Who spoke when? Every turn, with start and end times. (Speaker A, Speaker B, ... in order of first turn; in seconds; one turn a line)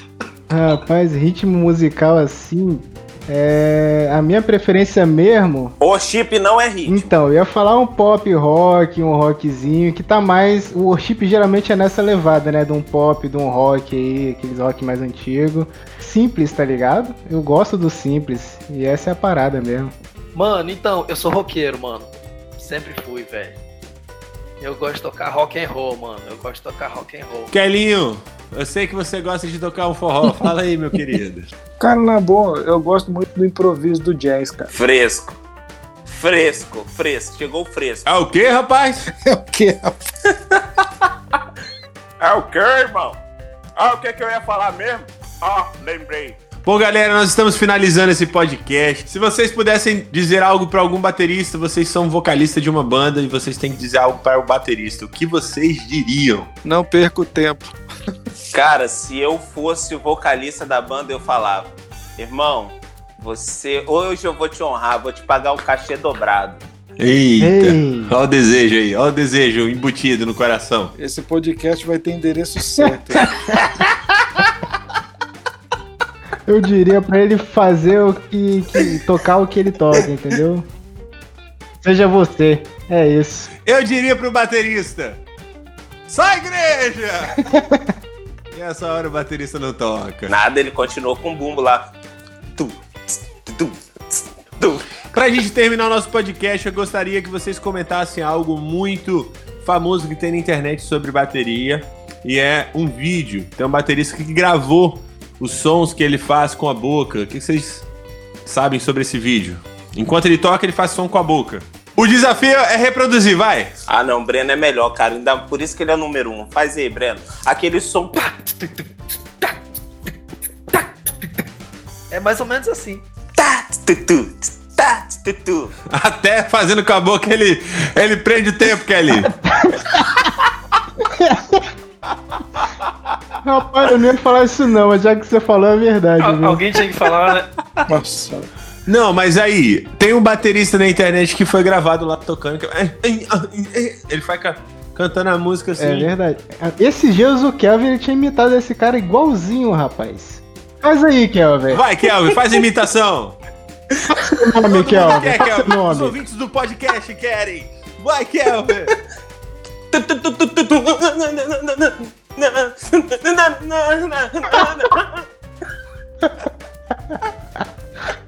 Speaker A: 0.5-5.8
Speaker B: 5.8-7.1
Speaker A: 6.9-19.9
Speaker C: 20.3-23.6
Speaker C: 24.6-27.5
Speaker D: 27.5-31.5
Speaker E: 31.8-34.7
Speaker B: 34.7-35.4
Speaker B: 36.1-38.1
Speaker D: 38.1-39.1
Speaker E: 39.2-40.0
Speaker B: 42.2-43.2
Speaker B: 43.8-46.4
Speaker D: 46.6-56.5
Speaker E: 56.6-57.8
Speaker B: 58.5-66.6
Speaker D: 67.0-70.9
Speaker A: 67.4-68.2
Speaker E: 71.0-73.2
Speaker A: 76.5-80.7
Speaker A: 81.8-83.5
Speaker D: 83.7-85.2
Speaker D: 86.1-87.4
Speaker A: 87.5-87.9
Speaker D: 88.5-90.3
Speaker B: 90.3-91.9
Speaker B: 92.6-94.9
Speaker D: 95.1-107.9
Speaker D: 108.5-113.7
Speaker B: 113.9-118.7
Speaker C: 118.4-118.8
Speaker C: 122.1-123.0
Speaker B: 123.4-125.7
Speaker D: 125.9-129.3
Speaker A: 129.6-130.1
Speaker A: 131.0-131.6
Speaker A: 133.4-136.6
Speaker C: 136.2-137.9
Speaker E: 137.9-138.5
Speaker D: 138.9-146.1
Speaker A: 145.8-151.8
Speaker D: 151.7-153.4
Speaker A: 154.1-156.2
Speaker D: 154.7-158.9
Speaker B: 159.9-165.2